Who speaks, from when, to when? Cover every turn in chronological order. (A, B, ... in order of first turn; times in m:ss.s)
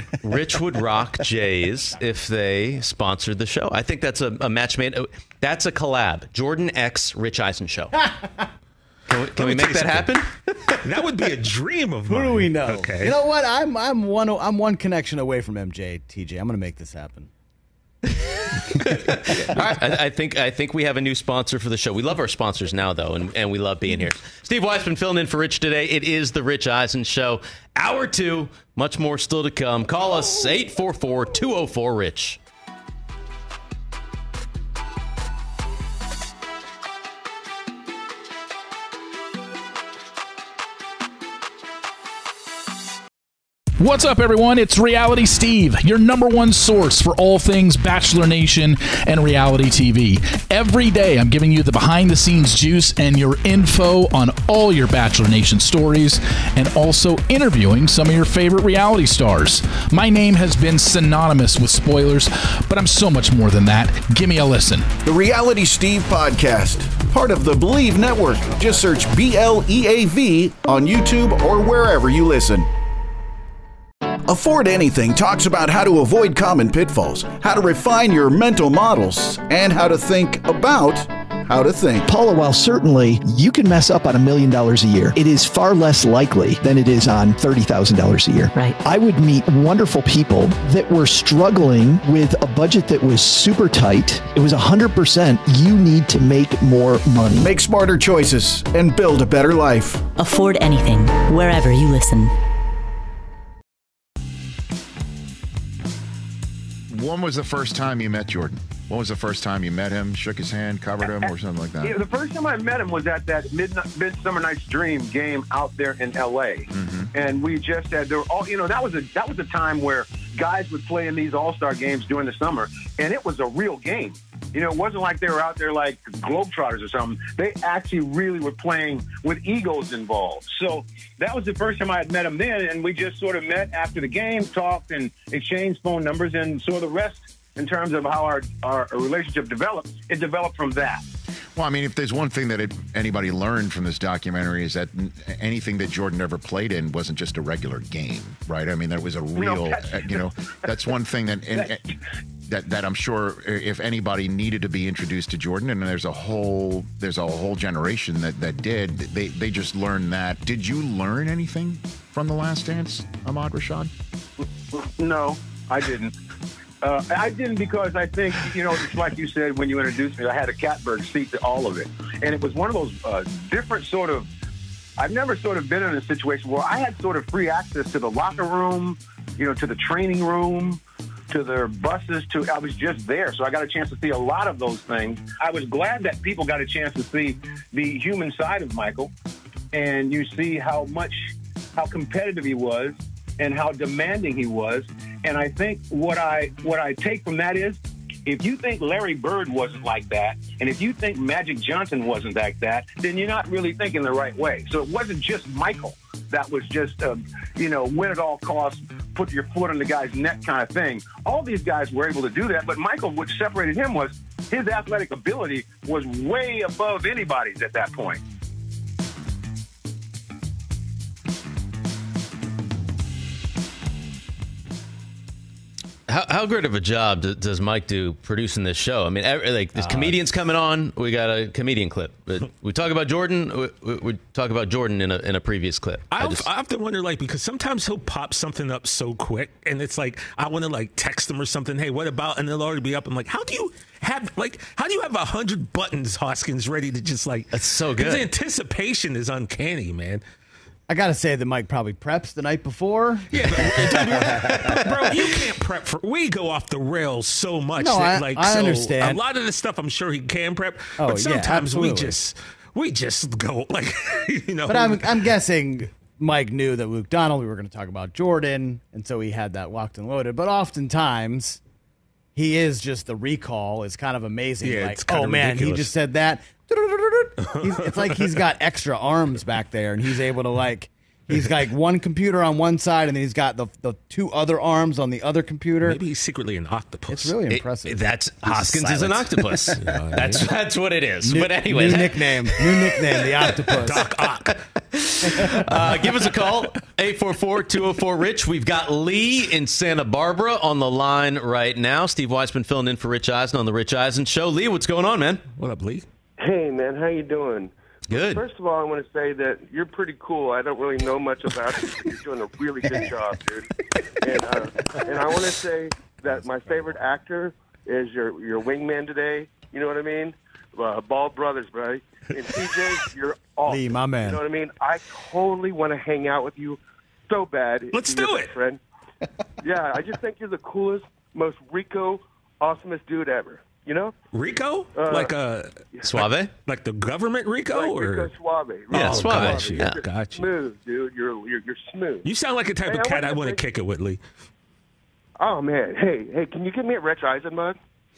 0:00.2-0:08.0 A
0:09.1-0:10.8 A
0:09.4-0:10.1 B
0:10.8-0:13.2 B
0:12.1-0:17.3 C
0:18.0-0:32.4 A
0:43.8-1:04.9 D
1:05.0-1:12.7 E
1:14.2-1:22.1 E
1:22.0-1:37.5 F
1:37.4-1:40.0 E
1:40.2-1:42.3 G
1:46.9-1:52.0 H
1:51.8-2:21.0 I
1:56.7-1:57.1 H
2:21.6-2:31.9 H
2:29.4-2:30.2 I
2:32.5-2:43.9 H
2:44.7-2:46.1 I
2:46.8-2:54.3 I
2:55.0-3:09.1 I
3:09.7-3:38.2 I
3:46.1-3:56.5 A
3:49.8-3:50.1 C
3:56.1-4:10.2 B
4:07.5-4:08.3 A
4:10.9-4:14.4 C
4:13.3-4:25.2 B
4:17.8-4:19.2 C
4:21.0-4:22.2 C
4:24.7-4:31.6 C
4:32.3-4:46.0 C
4:34.6-4:35.9 B
4:37.4-4:38.4 B
4:45.8-4:47.3 B
4:47.1-4:49.2 C
4:47.5-4:52.6 A
4:49.7-4:50.5 B
4:51.2-4:54.0 C
4:53.8-4:54.6 B
4:54.5-5:05.4 A
4:55.3-4:55.9 C
5:05.6-5:06.0 B
5:06.4-5:13.7 J
5:08.1-5:08.4 A
5:14.2-5:28.8 J
5:23.7-5:24.4 C
5:27.9-5:28.6 B
5:29.6-5:34.1 J
5:34.3-5:38.3 B
5:34.9-5:35.3 J
5:36.0-5:36.5 A
5:37.7-5:42.3 J
5:38.9-5:40.5 B
5:38.9-5:40.0 A
5:42.2-5:44.2 B
5:42.8-5:43.6 J
5:45.4-5:47.8 J